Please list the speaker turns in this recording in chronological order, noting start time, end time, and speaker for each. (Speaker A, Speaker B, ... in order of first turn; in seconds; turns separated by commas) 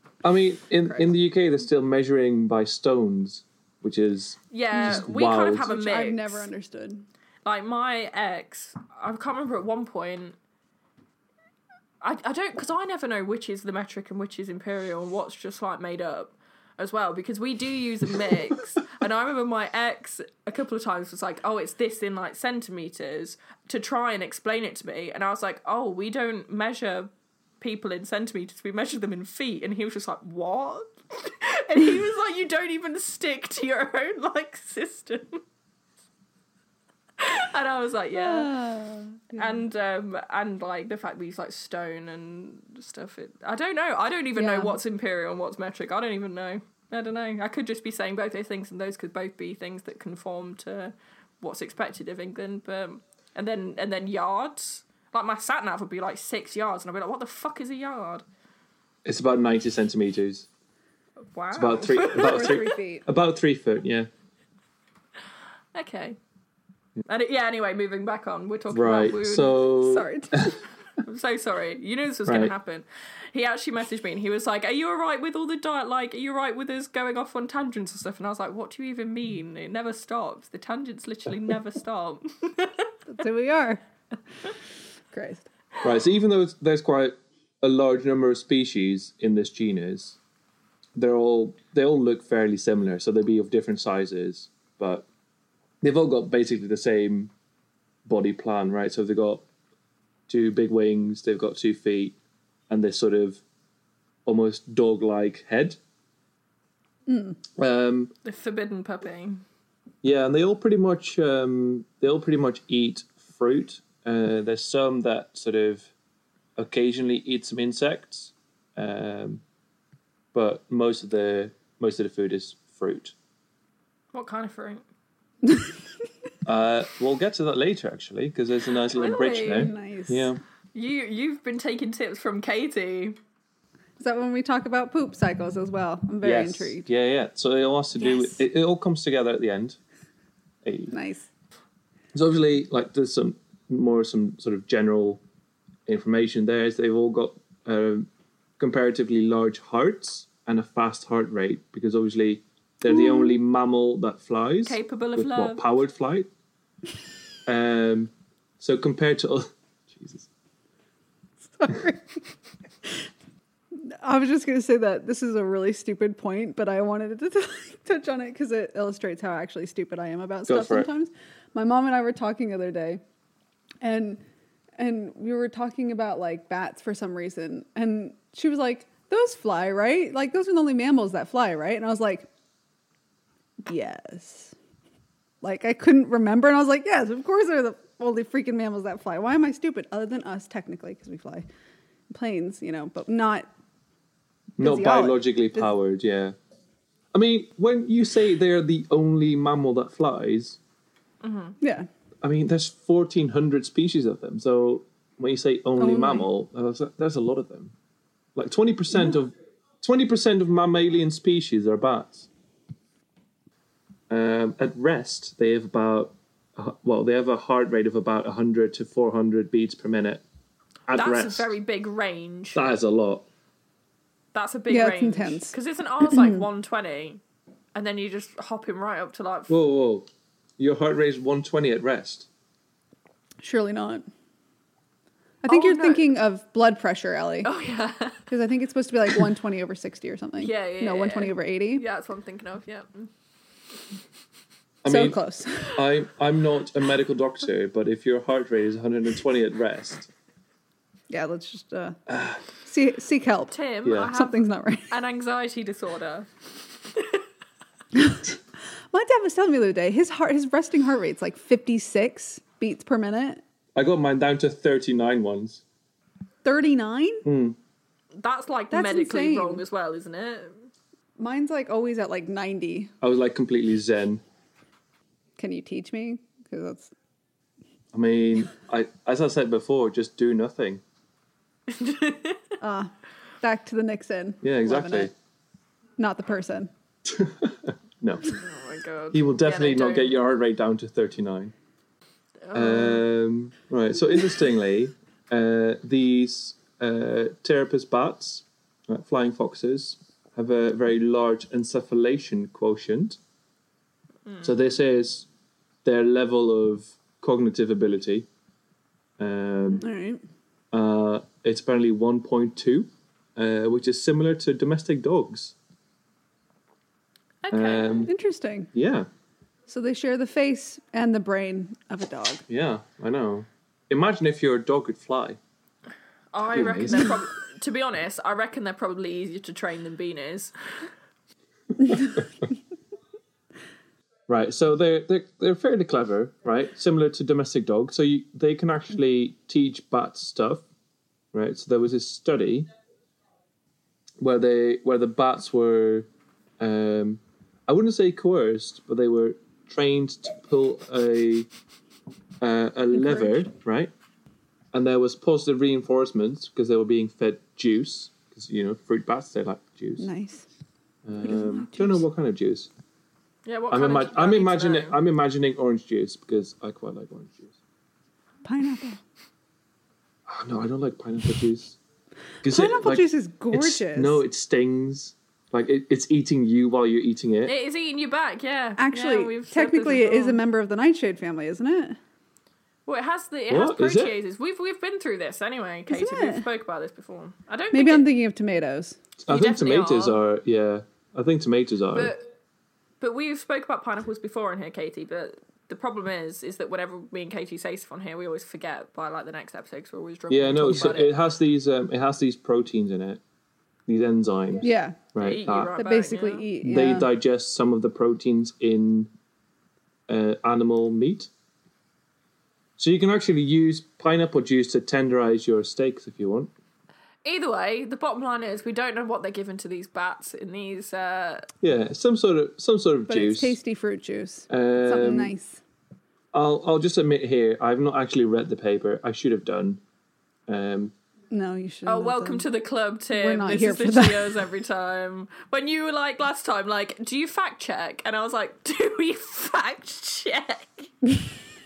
Speaker A: 0.2-5.7, Speaker B: 0.8-1.2, Speaker C: 4.5-6.5, Speaker B: 4.8-5.0, Speaker B: 5.6-7.0, Speaker C: 7.5-10.3, Speaker C: 12.0-27.1, Speaker C: 27.6-35.4, Speaker C: 37.2-38.5, Speaker B: 38.1-39.4, Speaker C: 39.3-58.2, Speaker B: 44.4-44.8, Speaker A: 59.0-60.5, Speaker C: 61.3-62.6, Speaker A: 61.5-64.1, Speaker B: 61.9-63.1, Speaker C: 65.7-66.2, Speaker C: 67.1-69.7, Speaker A: 68.7-70.5, Speaker B: 69.8-70.5, Speaker C: 71.0-82.9, Speaker A: 72.3-72.5, Speaker B: 83.1-83.8, Speaker B: 85.1-85.5, Speaker A: 85.8-90.2, Speaker A: 91.0-95.1, Speaker A: 95.8-97.3, Speaker A: 98.0-99.4, Speaker A: 100.3-102.2, Speaker A: 102.7-103.4, Speaker A: 104.3-105.8, Speaker B: 107.1-107.4, Speaker A: 107.6-108.1, Speaker C: 108.2-109.4, Speaker A: 110.0-115.9, Speaker A: 116.6-119.4, Speaker A: 120.3-123.1, Speaker C: 124.1-124.8, Speaker A: 126.5-130.4, Speaker C: 128.9-129.7, Speaker B: 129.4-130.3, Speaker C: 130.8-133.2, Speaker B: 134.0-136.9, Speaker A: 136.2-139.8, Speaker A: 140.7-140.9, Speaker B: 140.9-141.3, Speaker A: 142.1-145.2, Speaker A: 145.9-148.1, Speaker A: 148.6-156.3, Speaker B: 152.9-153.4, Speaker C: 154.7-155.6, Speaker A: 157.5-160.3, Speaker B: 161.5-162.2, Speaker B: 163.8-173.0, Speaker A: 170.5-170.9, Speaker B: 173.8-174.2, Speaker B: 174.8-182.3, Speaker B: 183.6-184.6, Speaker B: 185.4-191.5, Speaker B: 192.1-193.5, Speaker A: 194.6-196.3, Speaker B: 194.6-195.7, Speaker A: 197.1-200.6, Speaker C: 201.2-201.6, Speaker B: 201.6-201.9, Speaker A: 202.2-207.7, Speaker B: 205.8-206.3, Speaker A: 208.4-212.3, Speaker A: 214.1-220.2, Speaker A: 220.9-221.5, Speaker C: 220.9-222.6, Speaker A: 222.6-223.3, Speaker C: 224.3-227.2, Speaker B: 224.7-226.5, Speaker C: 227.8-229.6, Speaker A: 229.5-230.1, Speaker A: 230.6-232.3, Speaker B: 233.4-234.1, Speaker B: 235.4-237.5, Speaker C: 235.5-236.1, Speaker C: 237.4-238.3, Speaker B: 238.3-241.8, Speaker C: 240.4-243.1, Speaker A: 244.8-250.1, Speaker B: 244.9-245.8, Speaker B: 251.1-252.0, Speaker A: 252.1-252.4, Speaker B: 252.6-253.6, Speaker C: 253.5-256.3, Speaker A: 253.8-254.1, Speaker B: 254.1-254.9, Speaker C: 256.9-257.2, Speaker B: 257.9-263.4, Speaker A: 263.8-265.6, Speaker B: 266.4-267.2, Speaker A: 267.2-267.6, Speaker C: 268.2-270.7, Speaker B: 268.7-269.6, Speaker B: 271.2-272.9, Speaker A: 273.0-274.2, Speaker B: 275.4-276.9, Speaker A: 277.9-280.8, Speaker C: 281.7-282.6, Speaker B: 282.6-285.1, Speaker A: 284.4-285.1, Speaker B: 286.0-286.7, Speaker A: 287.1-288.4, Speaker C: 288.3-290.2, Speaker A: 289.1-291.5, Speaker C: 292.4-293.0, Speaker A: 292.5-303.2, Speaker A: 304.4-305.3, Speaker A: 305.8-308.3, Speaker A: 309.2-309.9, Speaker B: 309.8-310.2, Speaker A: 310.7-315.6, Speaker C: 317.4-318.0, Speaker A: 317.5-318.1, Speaker B: 318.1-318.7, Speaker A: 318.7-319.1, Speaker B: 319.7-322.4, Speaker A: 322.5-325.4, Speaker C: 326.3-330.5, Speaker A: 326.5-327.2, Speaker A: 331.9-332.3, Speaker A: 334.3-340.6, Speaker A: 341.3-342.7, Speaker A: 344.2-346.1, Speaker A: 346.6-351.5, Speaker A: 352.4-353.9, Speaker B: 353.0-353.5, Speaker A: 354.7-360.1, Speaker B: 360.0-360.5, Speaker A: 361.1-362.7, Speaker B: 361.2-362.0, Speaker C: 363.5-365.0, Speaker A: 363.7-367.5, Speaker B: 368.4-369.0, Speaker A: 370.3-371.8, Speaker A: 372.4-377.5, Speaker B: 372.4-374.2, Speaker C: 377.4-380.4, Speaker B: 378.8-382.0, Speaker C: 382.9-388.1, Speaker A: 383.5-384.2, Speaker B: 385.9-386.5, Speaker B: 387.7-389.0, Speaker A: 389.2-392.1, Speaker C: 389.3-390.2, Speaker C: 391.9-392.3, Speaker C: 393.0-401.2, Speaker A: 400.3-403.2, Speaker A: 403.9-405.8, Speaker B: 404.6-405.0, Speaker C: 405.2-406.5, Speaker B: 405.8-407.1, Speaker A: 406.6-409.1, Speaker A: 410.1-411.3, Speaker A: 412.8-416.5, Speaker C: 417.2-421.5, Speaker A: 421.6-423.6, Speaker B: 423.1-425.6, Speaker A: 424.5-425.3, Speaker A: 426.3-429.8, Speaker A: 430.5-430.9, Speaker B: 431.3-432.5, Speaker C: 431.9-440.9, Speaker B: 433.1-434.4